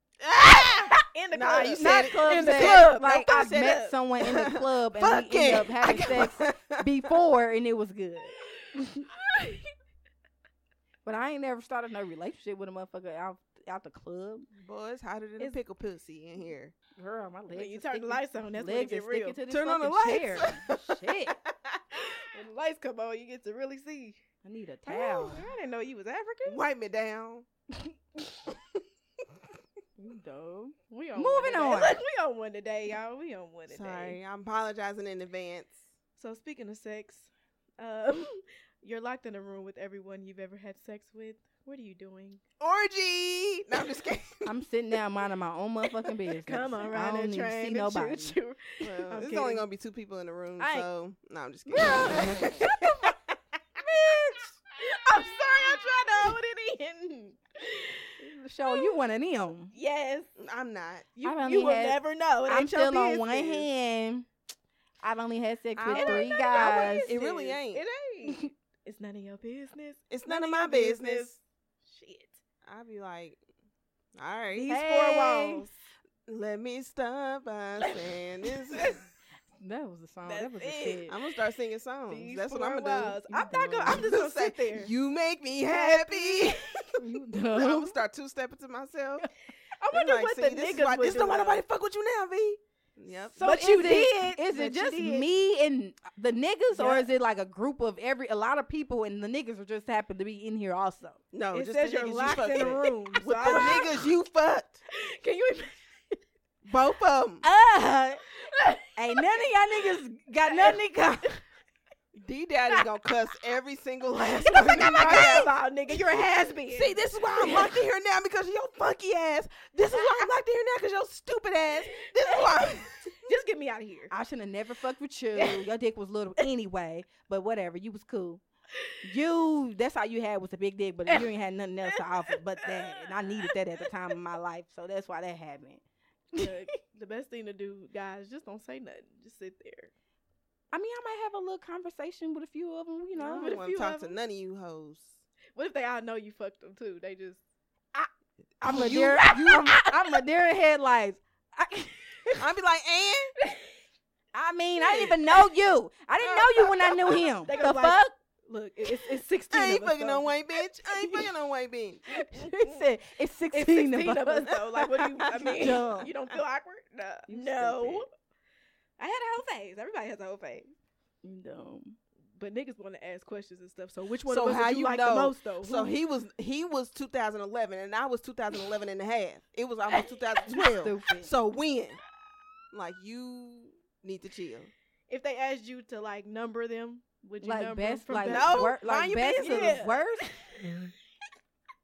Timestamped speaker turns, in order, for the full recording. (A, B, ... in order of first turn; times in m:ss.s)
0:00.2-0:07.1 A
0:01.0-0:03.9 B
0:01.6-0:09.1 C
0:09.1-0:09.7 B
0:11.0-0:14.5 C
0:14.5-0:16.7 A
0:17.0-0:21.4 C
0:17.5-0:19.4 B
0:19.5-0:22.0 A
0:22.1-0:24.2 B
0:24.4-0:25.5 C
0:24.9-0:26.6 B
0:26.4-0:27.5 A
0:30.0-0:34.2 B
0:31.2-0:32.0 C
0:33.7-0:35.8 A
0:36.2-0:42.4 B
0:42.6-0:44.5 A
0:44.5-0:48.4 C
0:46.4-0:49.6 B
0:48.8-0:52.8 A
0:50.6-0:50.9 C
0:51.7-0:52.8 C
0:53.8-0:58.9 B
0:58.4-0:59.7 C
0:59.7-1:00.3 B
1:00.4-1:01.1 A
1:01.2-1:03.7 B
1:01.2-1:04.3 C
1:05.0-1:07.1 C
1:05.8-1:07.8 A
1:05.9-1:12.4 B
1:10.1-1:11.4 A
1:12.6-1:13.4 A
1:14.2-1:14.8 A
1:14.5-1:15.7 B
1:14.7-1:15.7 C
1:16.3-1:19.0 A
1:17.8-1:19.1 B
1:19.6-1:21.2 C
1:20.2-1:21.1 B
1:21.1-1:23.2 A
1:22.1-1:24.9 B
1:23.3-1:24.1 C
1:23.9-1:27.0 A
1:25.7-1:27.0 B
1:27.0-1:28.0 C
1:27.5-1:29.3 A
1:29.8-1:31.6 B
1:29.9-1:33.4 A
1:33.4-1:41.2 C
1:33.4-1:35.3 B
1:36.7-1:37.1 B
1:41.3-1:44.8 A
1:41.5-1:43.9 B
1:44.9-1:46.2 B
1:46.6-1:47.4 A
1:47.4-1:48.2 C
1:48.4-1:49.3 B
1:49.0-1:51.4 C
1:50.5-1:51.4 B
1:52.2-1:55.5 A
1:54.5-1:57.8 B
1:54.8-1:55.5 C
1:56.7-2:03.3 A
1:59.9-2:00.2 B
2:02.0-2:04.1 B
2:04.1-2:08.4 C
2:05.4-2:05.6 B
2:09.0-2:15.8 C
2:11.8-2:13.6 B
2:16.4-2:19.9 B
2:20.7-2:23.6 C
2:23.2-2:24.2 B
2:23.2-2:25.2 A
2:25.6-2:27.4 B
2:28.6-2:29.8 A
2:28.6-2:32.4 C
2:29.4-2:29.8 B
2:32.4-2:33.3 A
2:34.3-2:38.1 C
2:34.8-2:35.5 B
2:37.4-2:41.3 B
2:39.5-2:42.1 A
2:42.2-2:42.8 B
2:42.2-2:46.1 C
2:43.5-2:48.1 B
2:47.3-2:48.1 C
2:49.0-2:50.7 B
2:51.2-2:52.0 C
2:52.4-2:56.0 B
2:54.2-3:02.0 A
3:00.7-3:01.3 C
3:02.7-3:04.7 A
3:05.1-3:08.8 B
3:07.4-3:10.3 C
3:08.2-3:09.8 A
3:09.3-3:10.8 B